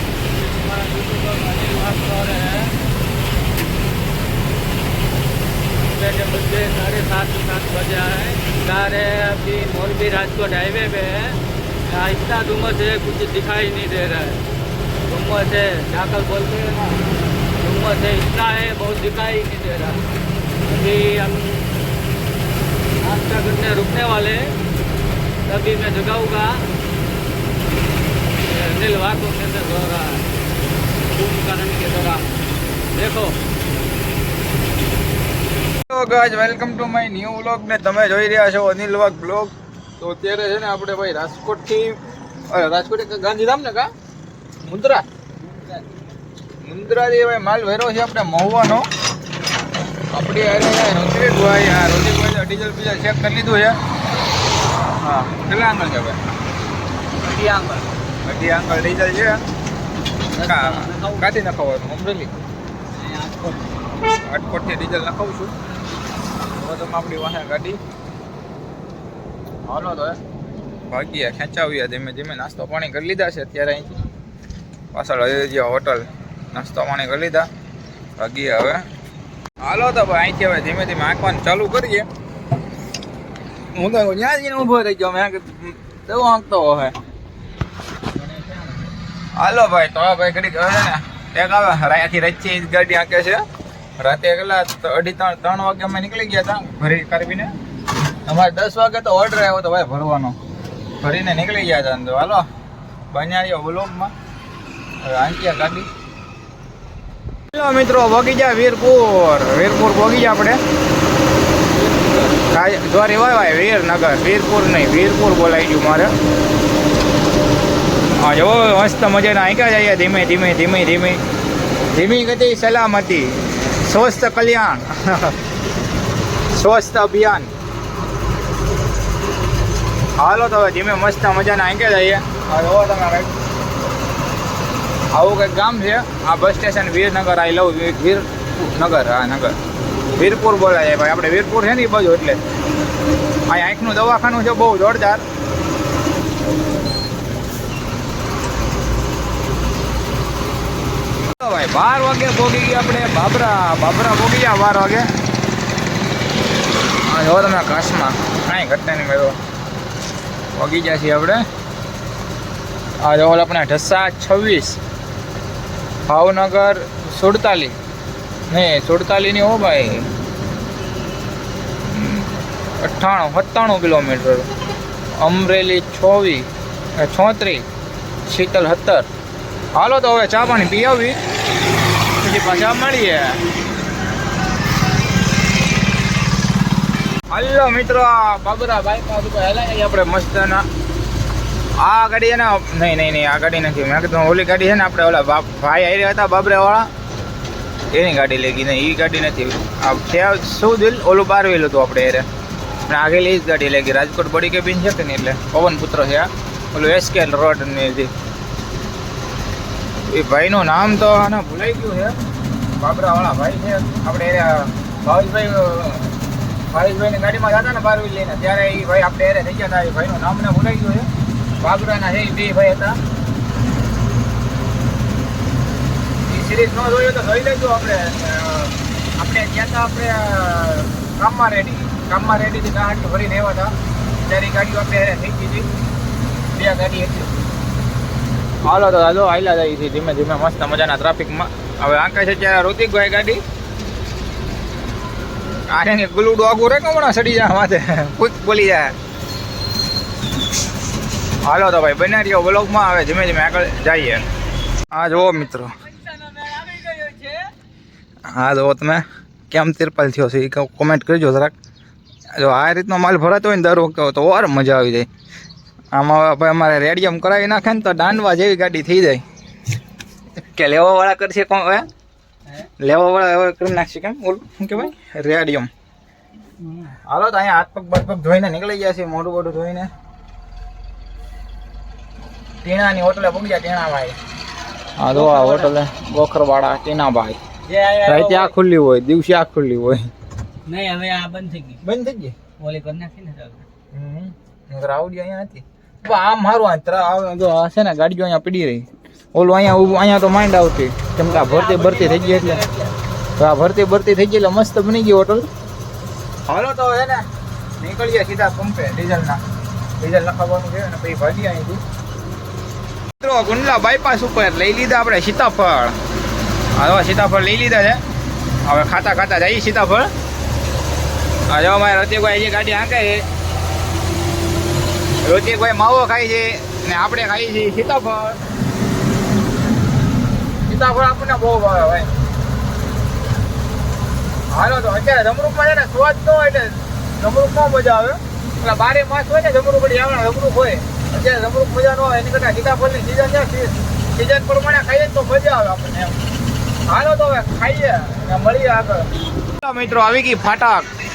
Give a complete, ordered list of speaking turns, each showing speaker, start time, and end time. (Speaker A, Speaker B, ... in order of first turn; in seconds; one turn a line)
Speaker A: 0.3-2.8
Speaker A: 5.8-14.4
Speaker A: 15.1-17.0
Speaker A: 17.6-20.1
Speaker A: 20.6-21.7
Speaker A: 23.0-24.6
Speaker A: 25.4-26.7
Speaker A: 28.4-30.3
Speaker A: 31.1-32.3
Speaker A: 32.9-33.4
Speaker B: 35.9-43.9
Speaker B: 44.6-45.0
Speaker B: 46.6-48.8
Speaker B: 50.1-53.8
Speaker B: 55.0-56.2
Speaker A: 57.2-57.9
Speaker B: 58.2-59.4
Speaker A: 60.3-61.3
Speaker B: 60.4-62.3
Speaker A: 63.0-64.0
Speaker B: 64.0-65.5
Speaker B: 66.5-67.8
Speaker B: 69.7-70.2
Speaker B: 70.9-74.0
Speaker B: 74.9-77.5
Speaker B: 78.2-78.9
Speaker B: 79.6-82.1
Speaker B: 83.8-86.9
Speaker A: 88.2-88.8
Speaker B: 89.4-93.4
Speaker B: 94.0-97.5
Speaker B: 98.3-100.4
Speaker B: 101.0-102.5
Speaker B: 103.1-104.1
Speaker B: 105.0-105.9
Speaker B: 107.5-110.6
Speaker A: 112.1-112.4
Speaker B: 112.5-116.1
Speaker B: 118.2-121.2
Speaker B: 121.9-125.4
Speaker B: 126.5-127.5
Speaker B: 130.2-133.3
Speaker B: 135.1-139.5
Speaker B: 140.2-142.4
Speaker B: 143.5-145.2
Speaker B: 151.3-155.1
Speaker B: 157.1-159.4
Speaker B: 160.5-161.4
Speaker B: 163.0-164.8
Speaker B: 166.1-167.8
Speaker B: 168.5-170.1
Speaker B: 171.8-174.5
Speaker B: 175.2-177.7
Speaker B: 178.2-179.1
Speaker B: 179.8-181.2
Speaker B: 182.2-183.4
Speaker B: 187.3-190.6
Speaker B: 191.8-196.9
Speaker B: 197.9-202.3
Speaker B: 202.9-208.1
Speaker B: 210.1-212.1
Speaker B: 212.8-216.1
Speaker B: 216.7-221.1
Speaker B: 221.6-223.0
Speaker B: 226.3-235.7
Speaker B: 236.5-237.3
Speaker B: 238.6-243.4
Speaker B: 245.7-248.9
Speaker B: 251.4-254.2
Speaker B: 254.9-255.7
Speaker A: 256.1-257.5
Speaker B: 258.3-261.5
Speaker B: 262.3-265.1
Speaker B: 265.9-269.2
Speaker B: 270.4-271.9
Speaker B: 272.8-275.7
Speaker A: 276.6-277.0
Speaker B: 277.1-279.9
Speaker B: 282.6-284.2
Speaker B: 285.0-287.4
Speaker A: 285.1-285.7
Speaker A: 287.7-288.5
Speaker B: 288.1-290.1
Speaker A: 290.7-291.8
Speaker B: 291.8-292.4
Speaker A: 292.5-293.6
Speaker B: 293.9-302.6
Speaker A: 301.3-302.9
Speaker B: 303.4-305.5
Speaker B: 306.5-307.2
Speaker B: 307.8-309.4
Speaker B: 310.0-311.8
Speaker B: 313.2-316.0
Speaker B: 316.8-318.0
Speaker B: 318.6-320.1
Speaker B: 321.5-323.2
Speaker B: 325.2-328.4
Speaker B: 330.7-332.2
Speaker B: 334.5-346.2
Speaker B: 346.9-350.9